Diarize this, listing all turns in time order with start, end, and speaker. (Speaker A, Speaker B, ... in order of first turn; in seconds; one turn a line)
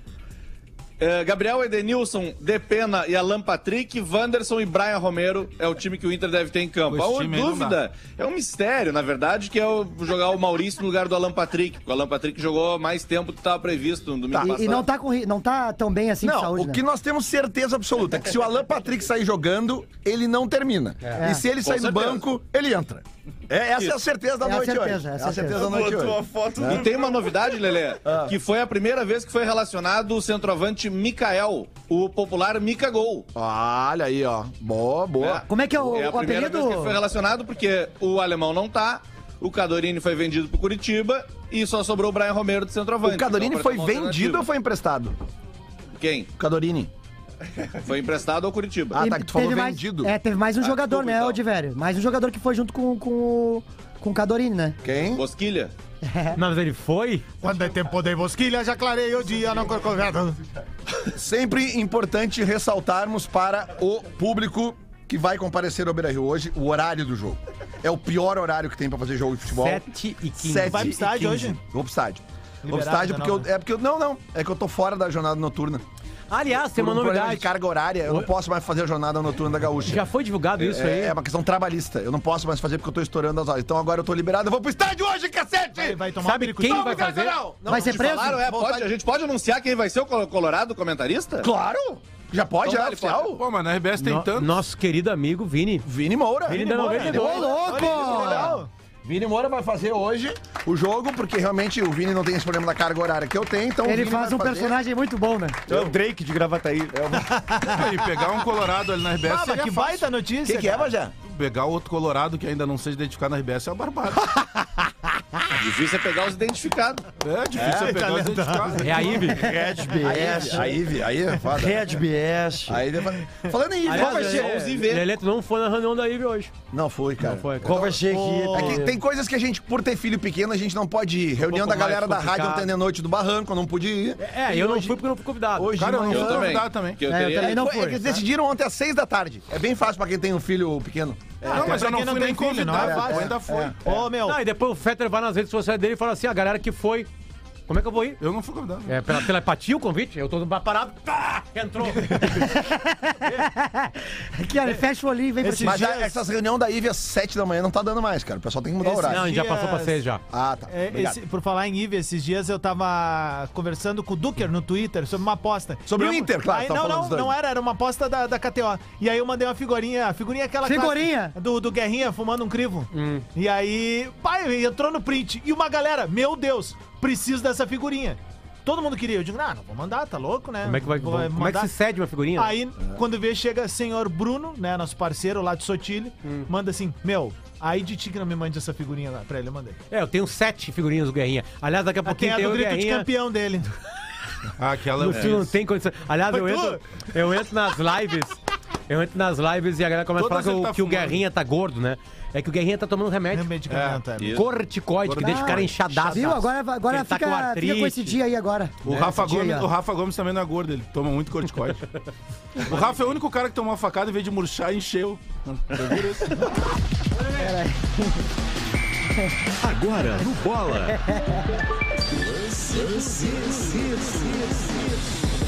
Speaker A: 1.0-14.8
Speaker B: 6.9-7.8
Speaker C: 14.3-16.8
Speaker D: 16.2-26.9
Speaker C: 21.1-21.4
Speaker A: 21.6-22.2
Speaker C: 24.4-25.7
Speaker E: 25.6-27.3
Speaker A: 26.6-33.3
Speaker D: 28.0-28.3
Speaker D: 33.3-35.4
Speaker A: 35.2-44.4
Speaker C: 35.4-37.0
Speaker D: 43.0-45.1
Speaker A: 46.0-46.3
Speaker D: 46.4-46.9
Speaker A: 47.8-49.0
Speaker D: 48.9-50.1
Speaker C: 48.9-54.8
Speaker A: 50.6-51.4
Speaker D: 54.8-55.2
Speaker A: 55.1-55.7
Speaker C: 56.0-56.4
Speaker F: 56.3-57.2
Speaker G: 57.4-60.4
Speaker D: 61.0-75.8
Speaker F: 69.5-71.5
Speaker G: 70.6-71.6
Speaker G: 72.6-73.5
Speaker F: 76.3-77.5
Speaker D: 76.7-80.0
Speaker F: 79.8-81.2
Speaker D: 80.6-86.0
Speaker G: 85.7-87.2
Speaker F: 86.2-87.4
Speaker D: 86.6-88.9
Speaker C: 87.7-88.4
Speaker A: 87.7-91.5
Speaker D: 91.4-93.4
Speaker A: 92.6-93.3
Speaker B: 93.3-94.5
Speaker F: 94.0-95.9
Speaker D: 95.8-104.8
Speaker F: 96.5-97.5
Speaker G: 96.5-98.7
Speaker C: 97.0-98.6
Speaker C: 103.8-105.6
Speaker E: 105.7-107.0
Speaker D: 105.7-105.9
Speaker D: 106.9-107.3
Speaker G: 107.1-108.0
Speaker B: 107.6-110.1
Speaker G: 109.2-110.9
Speaker D: 110.4-111.1
Speaker B: 111.2-114.3
Speaker A: 115.5-117.0
Speaker B: 117.2-119.3
Speaker D: 117.5-118.0
Speaker G: 117.6-119.3
Speaker F: 118.8-119.4
Speaker E: 119.2-120.8
Speaker D: 120.0-122.0
Speaker E: 121.5-122.8
Speaker D: 122.7-124.8
Speaker F: 123.8-126.5
Speaker A: 123.9-125.0
Speaker D: 126.7-135.0
Speaker F: 127.2-127.9
Speaker E: 127.6-128.9
Speaker G: 128.0-128.9
Speaker F: 131.4-132.7
Speaker F: 134.2-135.8
Speaker D: 135.5-136.7
Speaker B: 135.8-137.0
Speaker A: 136.1-137.6
Speaker C: 137.1-138.1
Speaker D: 137.3-141.9
Speaker G: 141.4-144.4
Speaker B: 141.5-143.9
Speaker D: 142.7-143.9
Speaker F: 144.2-147.1
Speaker F: 147.7-148.2
Speaker B: 148.2-148.9
Speaker F: 148.8-152.3
Speaker C: 152.2-155.9
Speaker G: 155.4-156.1
Speaker D: 155.6-159.3
Speaker G: 158.8-160.0
Speaker F: 159.0-160.2
Speaker D: 160.3-161.2
Speaker G: 160.7-181.7
Speaker D: 165.8-167.3
Speaker C: 170.6-171.3
Speaker F: 172.9-173.2
Speaker F: 180.6-182.6
Speaker G: 182.3-189.8
Speaker F: 189.9-193.1
Speaker G: 192.0-193.7
Speaker B: 194.6-195.5
Speaker F: 195.0-203.5
Speaker G: 196.3-196.8
Speaker B: 200.2-201.2
Speaker G: 203.3-204.4
Speaker B: 203.7-204.0
Speaker F: 204.2-208.2
Speaker B: 205.0-206.1
Speaker C: 205.2-209.7
Speaker B: 208.8-211.8
Speaker B: 212.6-216.5
Speaker C: 217.3-218.2
Speaker A: 219.6-220.9
Speaker C: 220.9-221.4
Speaker D: 222.7-224.2